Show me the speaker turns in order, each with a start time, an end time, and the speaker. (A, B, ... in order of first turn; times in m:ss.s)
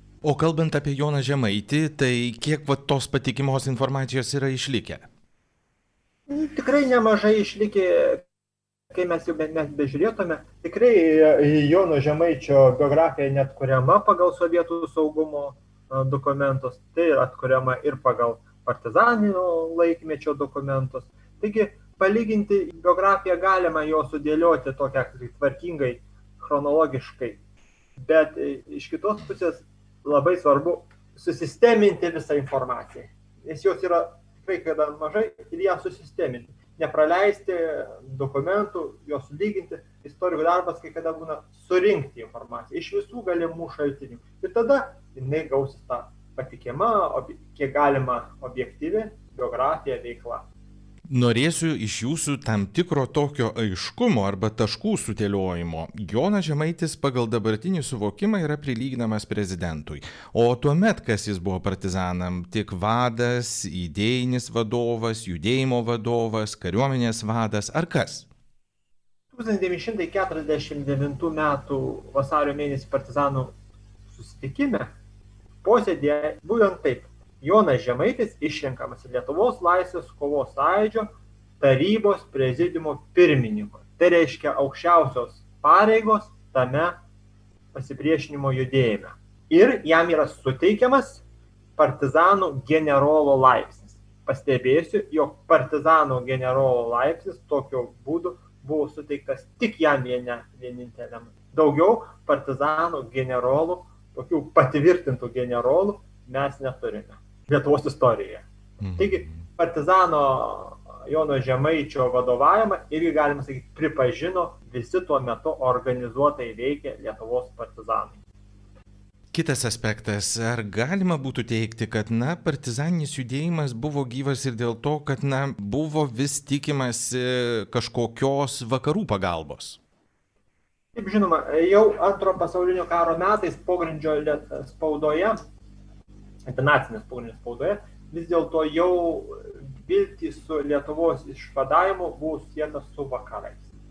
0:00.2-0:05.1 A
0:06.3-0:08.2 B
0:08.9-0:27.4 B
0:28.0-0:50.4 B
0:51.1-1:08.3 A
1:09.3-1:13.5 B
1:14.1-1:14.9 B
1:15.6-1:21.1 B
1:21.6-1:27.0 B
1:27.7-1:31.2 B
1:31.8-1:48.4 B
1:48.8-1:49.3 A
1:49.0-1:58.2 B
1:59.3-2:09.8 A
2:10.9-2:15.4 B
2:16.4-2:23.7 B